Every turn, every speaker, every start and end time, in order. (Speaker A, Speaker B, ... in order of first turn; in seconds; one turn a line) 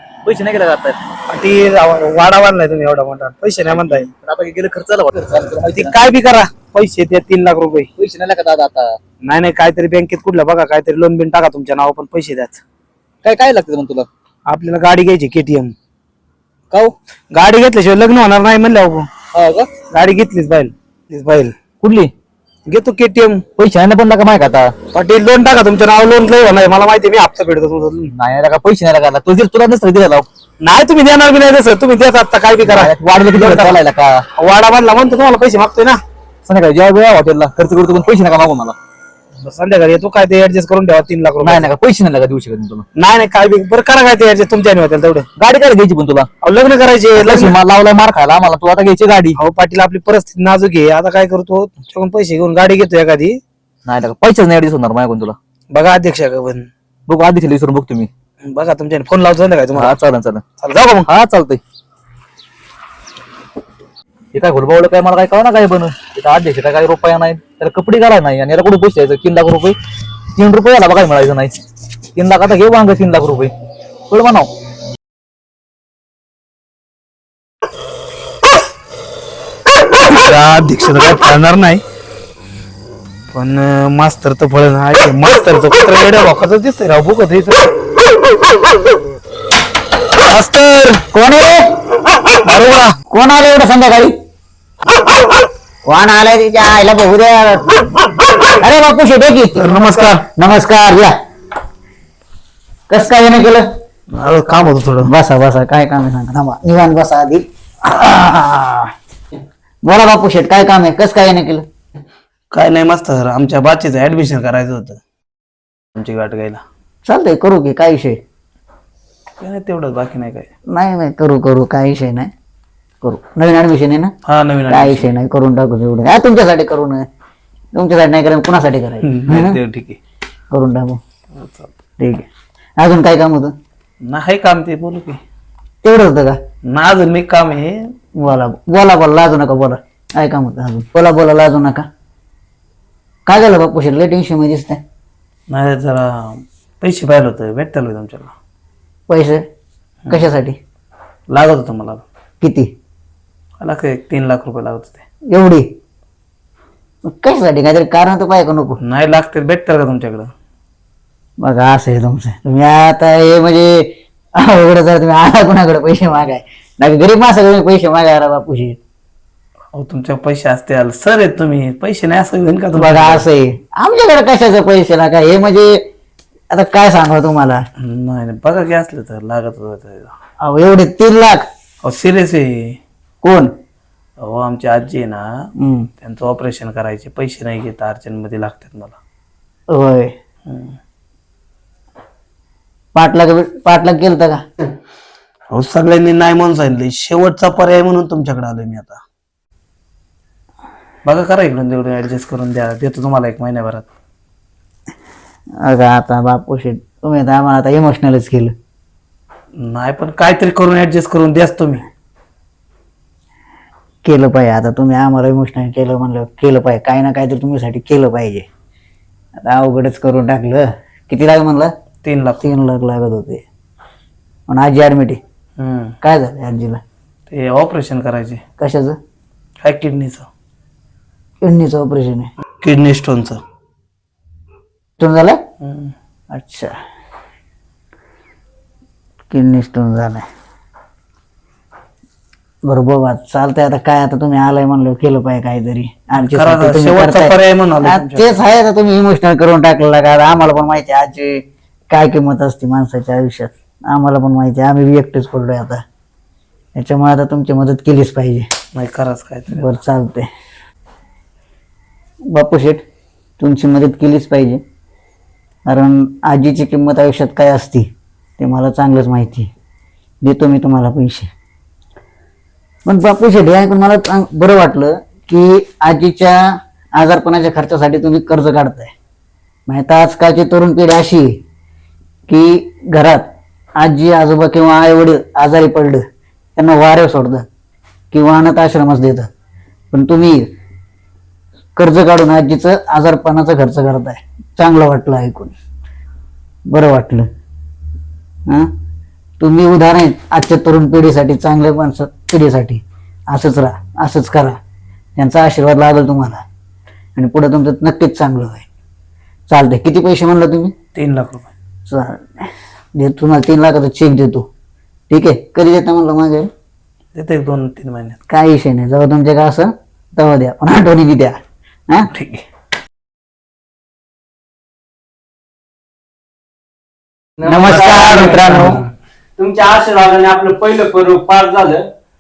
Speaker A: 0.2-1.0
Speaker B: 1.3-4.1
Speaker A: 3.7-5.9
Speaker B: 5.7-7.9
Speaker A: 8.0-9.0
Speaker B: 9.2-12.6
Speaker A: 13.2-14.1
Speaker B: 14.5-15.7
Speaker B: 17.3-19.1
Speaker A: 19.3-19.8
Speaker B: 19.9-21.5
Speaker A: 21.8-22.1
Speaker B: 22.7-23.4
Speaker A: 23.6-24.7
Speaker B: 24.9-28.1
Speaker A: 28.1-30.3
Speaker B: 30.6-33.7
Speaker A: 32.7-34.2
Speaker B: 34.4-36.0
Speaker A: 36.4-38.8
Speaker B: 39.4-41.7
Speaker A: 41.4-42.8
Speaker B: 43.0-45.2
Speaker A: 45.4-46.3
Speaker B: 46.4-47.5
Speaker A: 47.2-49.4
Speaker B: 49.4-53.4
Speaker A: 53.9-55.4
Speaker B: 55.7-56.7
Speaker A: 57.1-58.1
Speaker B: 58.4-59.9
Speaker A: 59.8-60.4
Speaker B: 60.6-61.1
Speaker A: 61.1-61.6
Speaker A: 64.3-69.8
Speaker A: 70.4-71.6
Speaker A: 72.1-73.5
Speaker A: 74.1-74.5
Speaker B: 80.1-81.8
Speaker B: 83.3-87.7
Speaker B: 90.3-91.0
Speaker C: 91.1-91.7
Speaker B: 92.5-92.8
Speaker C: 93.1-94.1
Speaker C: 95.8-101.1
Speaker D: 99.6-100.2
Speaker C: 102.9-103.7
Speaker D: 104.1-105.1
Speaker C: 105.0-108.9
Speaker C: 109.8-111.7
Speaker D: 112.5-115.0
Speaker D: 115.9-116.6
Speaker C: 117.0-118.2
Speaker D: 119.4-120.5
Speaker C: 120.7-122.3
Speaker C: 123.0-124.1
Speaker D: 124.2-125.1
Speaker C: 124.7-127.0
Speaker C: 127.7-129.6
Speaker D: 129.0-130.0
Speaker C: 130.5-131.0
Speaker D: 131.3-131.7
Speaker C: 132.0-132.3
Speaker C: 132.8-133.5
Speaker D: 134.0-135.2
Speaker C: 135.8-136.4
Speaker D: 136.7-137.9
Speaker C: 138.2-141.8
Speaker C: 143.3-144.8
Speaker D: 145.5-148.3
Speaker C: 149.1-149.4
Speaker D: 150.1-150.3
Speaker C: 150.1-150.6
Speaker D: 151.3-152.0
Speaker C: 152.4-152.7
Speaker D: 153.6-155.0
Speaker C: 155.3-155.7
Speaker C: 157.1-158.8
Speaker D: 158.8-160.3
Speaker C: 161.4-168.8
Speaker D: 169.7-173.2
Speaker C: 172.8-175.8
Speaker C: 176.5-177.6
Speaker D: 177.8-180.1
Speaker C: 180.4-181.4
Speaker D: 181.8-182.8
Speaker C: 183.2-183.5
Speaker D: 184.2-185.3
Speaker C: 185.6-185.9
Speaker D: 186.0-189.0
Speaker C: 189.7-190.1
Speaker D: 190.4-190.8
Speaker C: 192.9-194.4
Speaker D: 195.5-199.0
Speaker D: 201.0-203.9
Speaker C: 205.6-208.5
Speaker D: 209.6-211.9
Speaker C: 214.0-218.5
Speaker C: 219.4-221.7
Speaker D: 222.0-222.5
Speaker C: 222.4-223.4
Speaker C: 224.5-225.2
Speaker D: 225.6-225.9
Speaker C: 226.0-226.8
Speaker D: 227.3-228.4
Speaker C: 228.6-228.9
Speaker D: 229.6-230.3
Speaker C: 231.4-232.3
Speaker D: 232.6-233.4
Speaker C: 235.0-235.4
Speaker D: 235.6-235.9
Speaker C: 236.3-236.7
Speaker C: 239.3-240.2
Speaker C: 242.6-255.8
Speaker D: 246.2-248.4
Speaker C: 256.8-258.5
Speaker D: 258.7-259.7
Speaker C: 259.5-260.3
Speaker C: 262.3-262.9
Speaker C: 263.4-264.6
Speaker C: 265.6-269.5
Speaker C: 270.2-271.3
Speaker C: 272.9-278.9
Speaker C: 279.7-281.4
Speaker C: 282.3-283.3
Speaker C: 283.8-286.0
Speaker C: 286.6-287.4
Speaker C: 288.1-289.3
Speaker C: 289.9-290.5
Speaker C: 291.8-295.5
Speaker C: 296.7-297.3
Speaker C: 299.4-304.6
Speaker C: 305.2-306.4
Speaker C: 307.1-308.6
Speaker C: 309.5-310.7
Speaker D: 310.9-311.5
Speaker C: 311.9-314.5
Speaker C: 315.1-316.5
Speaker D: 317.1-318.2
Speaker C: 318.3-321.4
Speaker D: 322.1-322.4
Speaker E: 327.4-328.8
Speaker C: 327.4-328.8
Speaker E: 329.4-331.9